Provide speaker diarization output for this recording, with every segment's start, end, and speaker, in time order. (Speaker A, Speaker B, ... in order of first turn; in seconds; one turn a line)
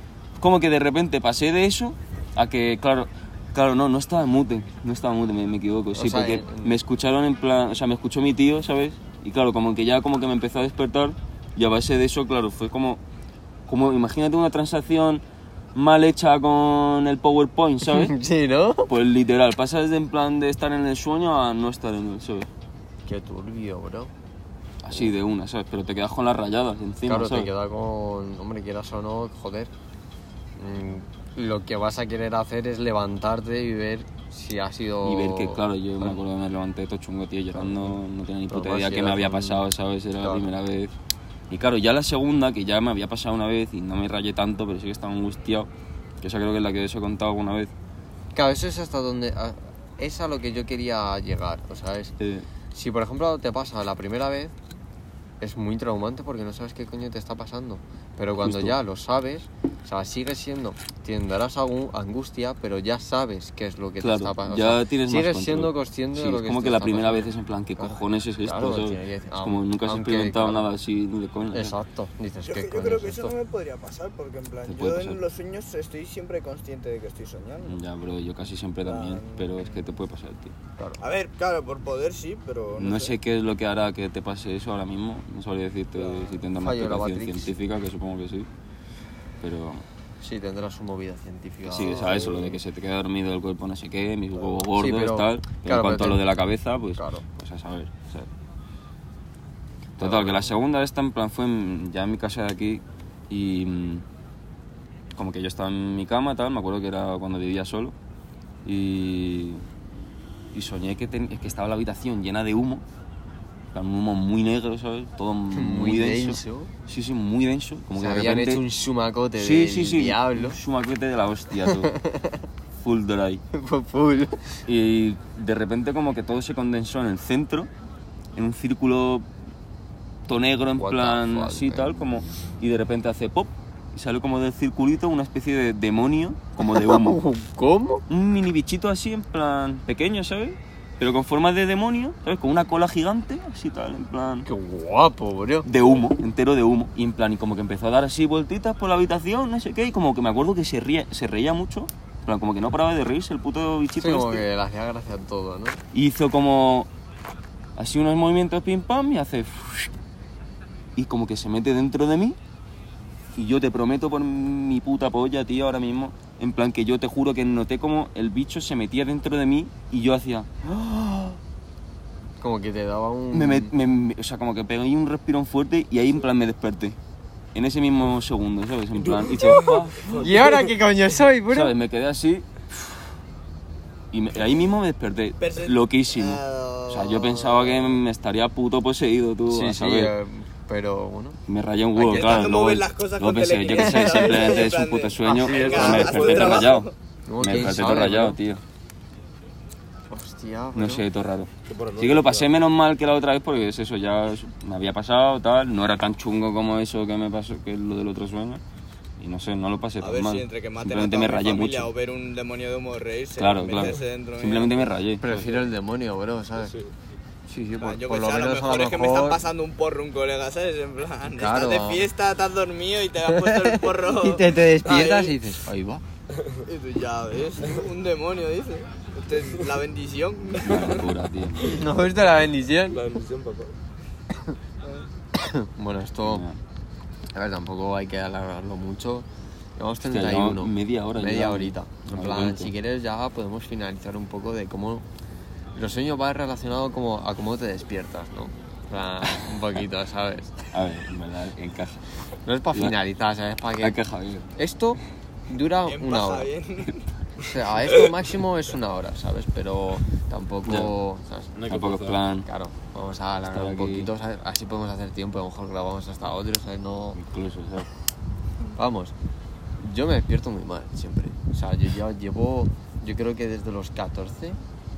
Speaker A: 0.4-13.0
Speaker B: 5.9-6.8
Speaker A: 13.7-15.2
Speaker A: 15.7-18.1
Speaker B: 17.9-18.9
Speaker A: 18.9-22.5
Speaker B: 23.1-24.1
Speaker A: 24.8-27.5
Speaker B: 27.1-29.7
Speaker B: 30.6-36.2
Speaker A: 35.0-40.9
Speaker B: 37.5-38.0
Speaker B: 38.5-39.7
Speaker B: 40.2-40.5
Speaker A: 41.5-45.7
Speaker A: 46.2-47.7
Speaker B: 48.4-52.1
Speaker A: 52.2-52.5
Speaker B: 52.7-54.5
Speaker B: 55.4-70.7
Speaker A: 58.4-58.8
Speaker A: 64.0-71.8
Speaker B: 71.5-73.3
Speaker C: 72.5-77.8
Speaker A: 74.7-75.2
Speaker A: 77.7-80.5
Speaker C: 78.8-79.8
Speaker C: 81.0-83.2
Speaker A: 82.8-88.5
Speaker C: 86.0-86.4
Speaker B: 86.6-87.5
Speaker A: 89.4-89.8
Speaker B: 90.2-92.6
Speaker A: 91.7-98.3
Speaker B: 94.7-96.2
Speaker B: 97.0-97.2
Speaker A: 100.0-104.0
Speaker B: 100.0-100.5
Speaker A: 105.2-108.0
Speaker A: 108.7-109.6
Speaker A: 110.5-112.8
Speaker A: 113.7-118.6
Speaker B: 115.5-116.7
Speaker B: 118.0-120.6
Speaker A: 119.4-121.9
Speaker B: 121.6-122.4
Speaker A: 122.8-123.4
Speaker B: 123.5-124.6
Speaker A: 124.7-127.7
Speaker A: 128.3-129.3
Speaker A: 130.3-137.2
Speaker B: 130.8-132.1
Speaker B: 136.6-138.1
Speaker A: 138.1-144.5
Speaker B: 144.4-146.0
Speaker A: 145.6-154.4
Speaker B: 154.0-155.8
Speaker A: 155.9-156.9
Speaker A: 157.8-159.9
Speaker A: 160.9-162.4
Speaker A: 163.3-170.5
Speaker B: 170.6-171.4
Speaker B: 172.4-173.7
Speaker A: 173.3-177.0
Speaker A: 177.5-180.5
Speaker D: 179.0-180.7
Speaker B: 180.0-181.8
Speaker A: 181.5-182.5
Speaker A: 184.1-190.1
Speaker C: 185.4-187.7
Speaker B: 189.5-191.4
Speaker A: 191.5-198.6
Speaker C: 192.0-196.9
Speaker B: 192.1-192.3
Speaker B: 195.2-196.6
Speaker B: 197.3-198.4
Speaker B: 200.1-201.1
Speaker A: 200.8-208.6
Speaker D: 201.7-202.5
Speaker A: 209.2-211.9
Speaker C: 210.0-214.9
Speaker A: 213.4-215.2
Speaker B: 215.2-216.7
Speaker D: 215.2-215.6
Speaker D: 216.6-216.9
Speaker B: 217.5-219.4
Speaker C: 217.8-225.4
Speaker B: 221.3-222.1
Speaker B: 223.3-226.0
Speaker C: 226.7-231.1
Speaker A: 230.6-231.8
Speaker B: 231.6-233.2
Speaker D: 232.9-233.8
Speaker B: 235.3-236.4
Speaker A: 236.2-236.6
Speaker B: 237.3-239.3
Speaker B: 239.8-245.1
Speaker A: 240.1-242.7
Speaker B: 245.7-250.7
Speaker A: 250.7-252.0
Speaker B: 252.4-254.0
Speaker A: 253.8-254.5
Speaker B: 254.6-256.5
Speaker C: 255.9-257.1
Speaker B: 257.4-261.5
Speaker A: 260.6-260.9
Speaker D: 261.6-262.2
Speaker A: 261.7-262.5
Speaker B: 262.5-267.2
Speaker A: 263.5-264.1
Speaker A: 267.1-267.9
Speaker B: 268.8-269.1
Speaker B: 269.8-274.6